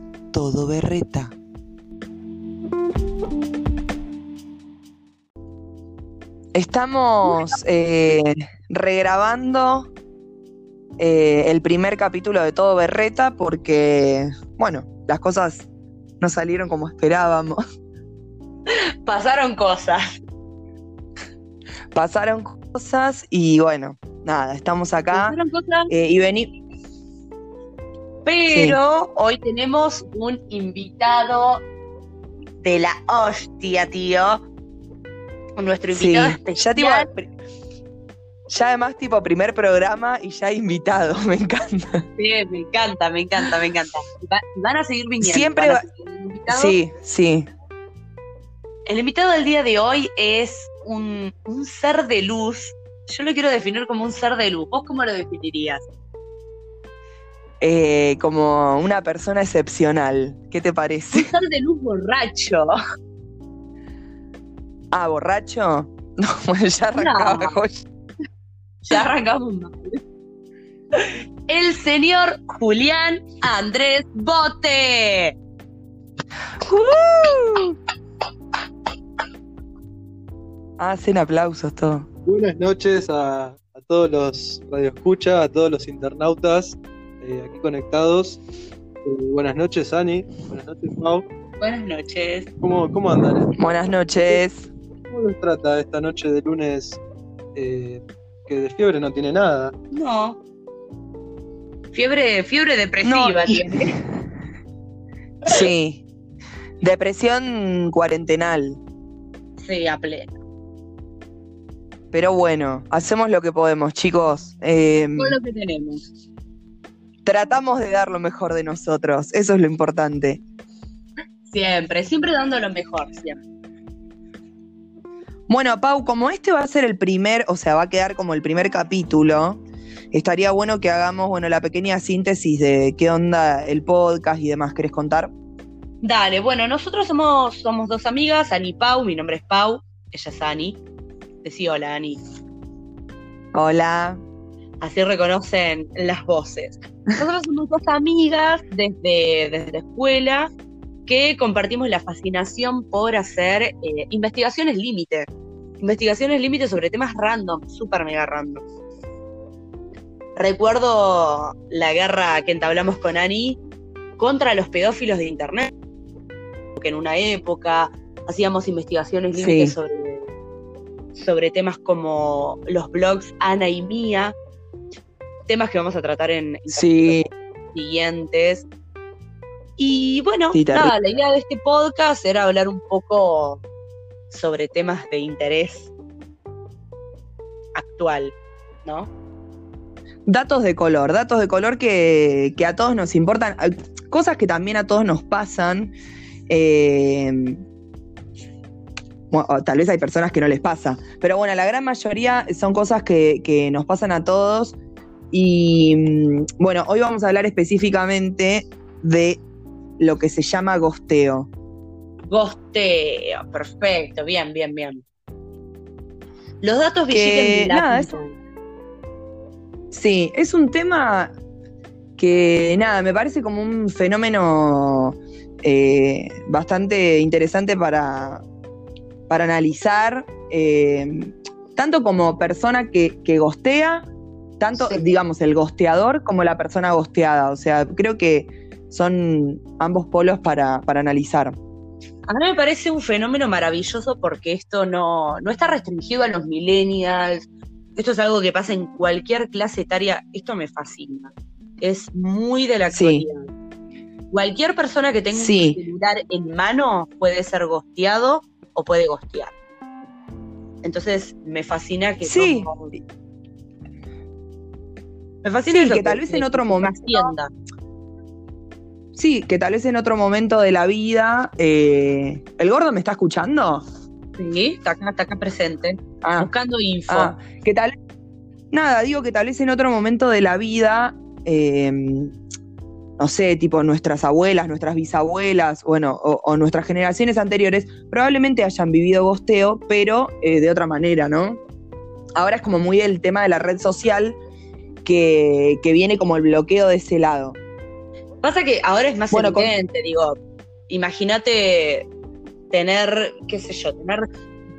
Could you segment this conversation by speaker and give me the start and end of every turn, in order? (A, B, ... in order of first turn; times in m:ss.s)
0:00.3-0:01.3 A
0:06.5-0:09.9 A
0:11.0-0:15.7 A
0:16.2-0:17.6 A
0:18.7-0:20.0 B
0:21.9-0:25.4 A
0:25.1-0:25.9 B
0:25.9-0:26.6 A
0:28.2-0:31.6 B
0:28.5-0:28.8 A
0:32.6-0:34.4 B
0:35.6-0:37.1 B
0:35.9-0:37.3 A
0:38.5-0:42.0 A
0:42.2-0:46.8 B
0:45.2-0:45.8 A
0:46.5-0:47.5 A
0:48.8-0:55.8 B
0:57.6-1:01.3 A
1:01.1-1:02.8 B
1:04.9-1:07.8 A
1:07.0-1:07.6 B
1:08.8-1:10.0 B
1:10.9-1:15.4 B
1:16.6-1:17.8 A
1:20.8-1:22.1 A
1:22.2-1:28.4 C
1:29.0-1:31.2 C
1:31.6-1:32.5 B
1:32.6-1:33.6 C
1:33.6-1:34.7 A
1:35.1-1:37.0 C
1:37.5-1:39.7 C
1:39.9-1:40.4 B
1:41.9-1:44.0 B
1:43.0-1:43.9 A
1:45.4-1:46.0 A
1:46.8-1:48.8 A
1:49.6-1:50.3 B
1:52.1-1:55.4 A
1:55.2-1:56.0 B
1:57.2-2:00.4 A
2:01.5-2:03.4 B
2:05.5-2:15.3 A
2:16.0-2:20.8 B
2:21.4-2:22.2 B
2:23.5-2:24.2 A
2:24.8-2:30.5 B
2:31.0-2:35.3 B
2:35.8-2:38.6 B
2:40.4-2:43.6 B
2:44.2-2:45.7 B
2:46.8-2:50.3 B
2:49.3-2:49.7 A
2:51.1-2:54.3 B
2:55.5-2:58.6 B
2:56.7-2:57.3 A
2:59.8-3:03.6 B
3:00.5-3:00.9 A
3:04.3-3:05.9 B
3:07.7-3:09.1 B
3:10.2-3:15.9 A
3:16.5-3:17.6 A
3:19.3-3:24.8 A
3:25.3-3:29.4 A
3:30.0-3:31.5 A
3:32.3-3:35.0 B
3:36.6-3:38.3 B
3:37.1-3:38.1 A
3:39.9-3:41.3 A
3:42.2-3:48.4 A
3:49.3-3:54.1 A
3:54.6-4:01.6 A
3:54.7-3:55.1 B
4:02.3-4:13.5 B
4:12.9-4:13.2 A
4:14.3-4:19.5 B
4:15.3-4:15.8 A
4:20.8-4:22.9 B
4:22.2-4:22.7 A
4:25.4-4:27.5 B
4:25.7-4:27.3 A
4:29.1-4:33.8 A
4:34.4-4:37.3 B
4:36.2-4:36.5 A
4:37.1-4:37.9 A
4:38.7-4:42.4 A
4:43.2-4:51.6 A
4:52.4-4:54.4 A
4:55.0-4:57.6 A
4:58.4-5:00.4 B
4:59.3-4:59.7 A
5:00.9-5:02.1 B
5:02.7-5:04.3 B